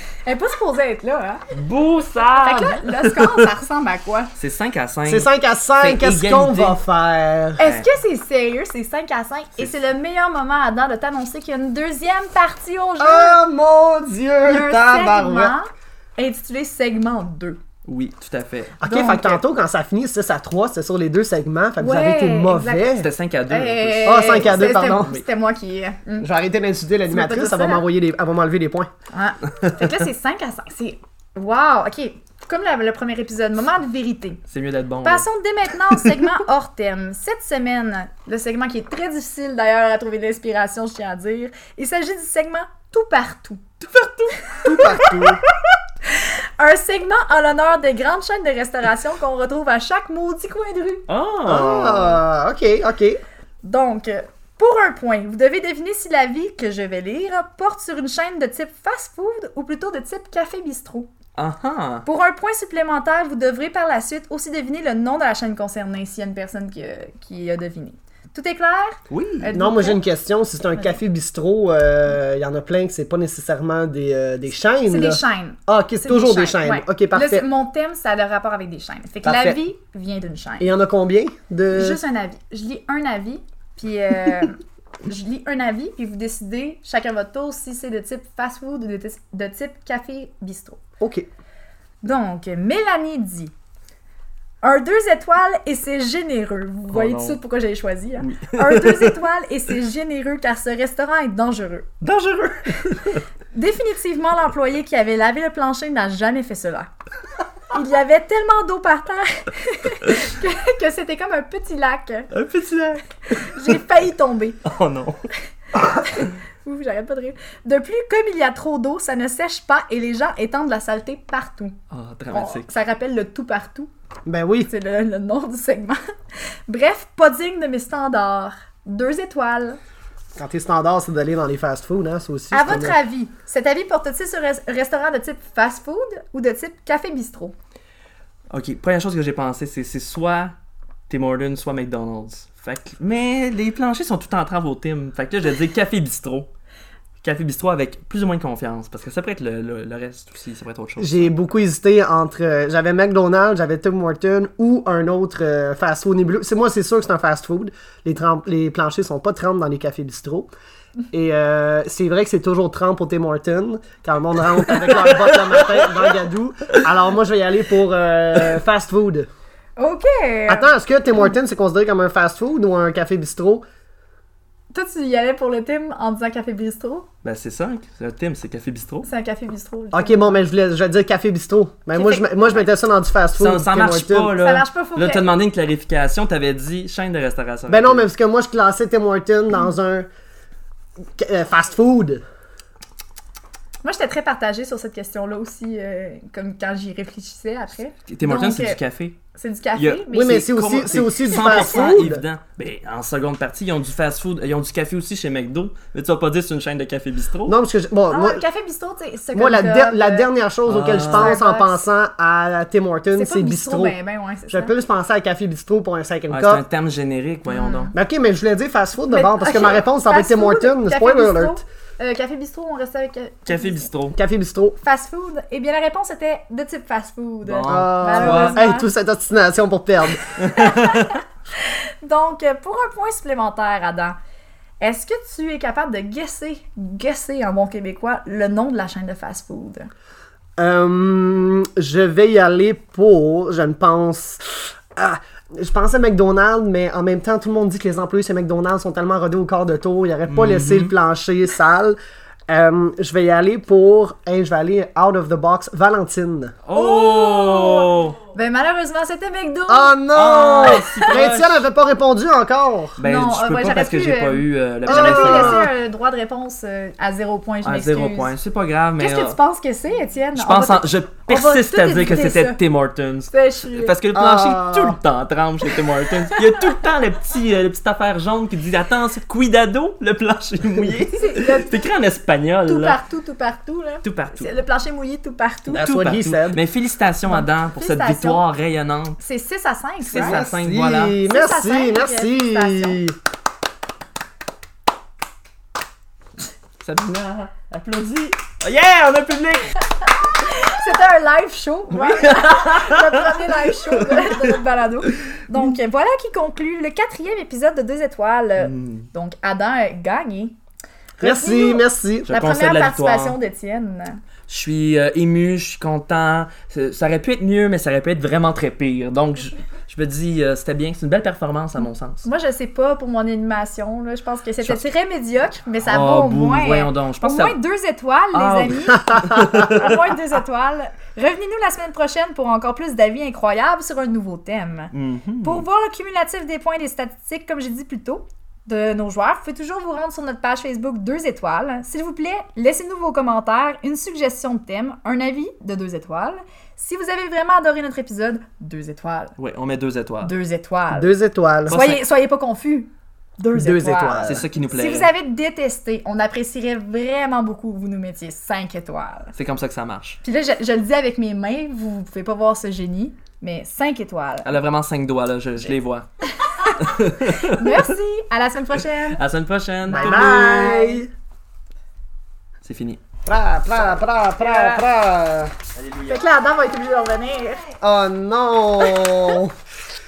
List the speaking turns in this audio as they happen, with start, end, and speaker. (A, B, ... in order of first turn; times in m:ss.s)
0:00.2-0:01.4 A
0:01.5-0:03.5 B
0:02.3-0:04.3 A
0:04.4-0:05.3 B
0:05.0-0:07.6 C
0:05.8-0:06.8 B
0:07.6-0:13.4 A
0:07.6-0:07.9 B
0:13.0-0:15.5 C
0:14.4-0:17.6 A
0:17.8-0:18.8 B
0:18.8-0:23.1 C
0:18.8-0:19.4 A
0:21.8-0:23.0 A
0:23.0-0:25.2 B
0:23.5-0:26.3 A
0:24.0-0:25.1 C
0:26.2-0:28.9 C
0:27.1-0:27.8 A
0:29.1-0:34.4 A
0:34.5-0:35.2 B
0:35.0-0:43.6 A
0:43.8-0:44.4 B
0:44.4-0:45.1 A
0:44.6-0:45.4 C
0:46.1-0:51.0 A
0:51.1-0:52.2 B
0:51.5-0:53.2 C
0:53.6-1:01.1 A
1:01.4-1:02.0 B
1:02.0-1:10.0 A
1:09.1-1:09.5 B
1:09.5-1:17.4 C
1:14.9-1:20.7 A
1:19.2-1:19.6 C
1:20.6-1:22.0 C
1:21.7-1:30.8 A
1:31.0-1:31.3 C
1:32.0-1:33.5 A
1:34.6-1:41.9 A
1:36.9-1:37.4 B
1:38.2-1:39.2 B
1:42.0-1:43.2 B
1:43.5-1:46.9 A
1:47.7-1:52.3 A
1:52.3-1:53.0 B
1:53.4-1:54.6 A
1:54.6-1:55.2 B
1:55.8-2:01.8 A
2:01.9-2:02.7 B
2:02.3-2:03.9 A
2:04.2-2:04.7 C
2:04.7-2:06.0 A
2:06.7-2:09.8 A
2:10.4-2:13.0 C
2:12.5-2:17.5 A
2:18.5-2:20.5 B
2:21.1-2:26.5 B
2:27.2-2:31.3 B
2:31.0-2:40.5 C
2:41.1-2:49.3 C
2:45.0-2:45.6 B
2:49.8-2:50.7 A
2:50.5-2:53.6 C
2:54.7-2:57.1 A
2:57.2-2:59.1 B
2:59.0-3:00.4 A
2:59.9-3:04.4 C
3:01.9-3:02.7 A
3:03.4-3:08.1 B
3:04.4-3:05.3 A
3:07.7-3:10.1 C
3:11.2-3:12.2 C
3:13.8-3:18.8 A
3:18.1-3:19.2 B
3:19.3-3:20.5 A
3:19.8-3:27.6 B
3:20.1-3:22.2 C
3:21.3-3:22.0 A
3:27.5-3:28.4 C
3:28.1-3:30.3 A
3:29.3-3:33.9 C
3:30.6-3:31.4 B
3:30.9-3:31.8 A
3:33.1-3:34.7 A
3:34.5-3:36.6 C
3:36.3-3:37.9 B
3:37.5-3:37.9 A
3:37.9-3:41.6 C
3:39.1-3:43.9 A
3:43.5-3:44.2 B
3:44.1-3:44.8 C
3:44.8-3:48.9 A
3:47.4-3:48.6 B
3:47.6-3:50.3 C
3:50.4-3:51.1 B
3:50.5-3:54.2 A
3:54.8-3:59.9 A
4:00.6-4:12.0 C
4:10.3-4:10.9 B
4:12.5-4:16.5 C
4:16.6-4:18.2 B
4:16.7-4:20.0 A
4:19.7-4:23.0 C
4:20.1-4:21.7 B
4:20.6-4:21.1 A
4:23.0-4:25.7 B
4:23.0-4:28.3 A
4:24.8-4:25.7 C
4:27.6-4:29.4 B
4:29.0-4:32.6 A
4:30.4-4:43.0 B
4:33.3-4:33.9 A
4:34.1-4:35.0 C
4:41.1-4:41.8 A
4:42.6-4:45.8 A
4:44.0-4:44.5 B
4:45.7-4:49.2 B
4:45.7-4:46.6 C
4:47.3-4:48.4 A
4:49.2-4:50.4 A
4:50.0-4:51.2 B
4:50.1-4:53.2 C
4:51.2-4:53.0 A
4:56.8-4:59.7 B
5:00.1-5:10.6 A
5:02.0-5:04.6 B
5:08.6-5:09.1 B
5:11.2-5:14.2 A
5:11.2-5:12.3 C
5:12.3-5:13.4 B
5:14.5-5:22.2 B
5:22.2-5:49.4 A
5:25.8-5:27.6 B
5:28.3-5:30.1 B
5:29.2-5:29.7 C
5:34.9-5:35.6 B
5:49.4-5:50.3 B
5:50.2-5:51.1 A
5:50.9-5:51.8 C
5:51.6-5:52.0 B
5:51.7-5:59.3 A
5:53.5-5:54.4 C
5:54.3-5:55.1 B
5:59.3-6:00.2 B
6:00.2-6:04.5 A
6:04.4-6:06.0 B
6:06.4-6:06.7 A
6:06.7-6:07.9 B
6:07.4-6:09.2 A
6:09.1-6:10.7 B
6:09.9-6:11.1 C
6:09.9-6:11.0 A
6:12.6-6:13.0 B
6:13.2-6:15.5 C
6:14.4-6:14.8 A
6:15.7-6:16.2 B
6:16.1-6:17.7 A
6:17.8-6:19.5 C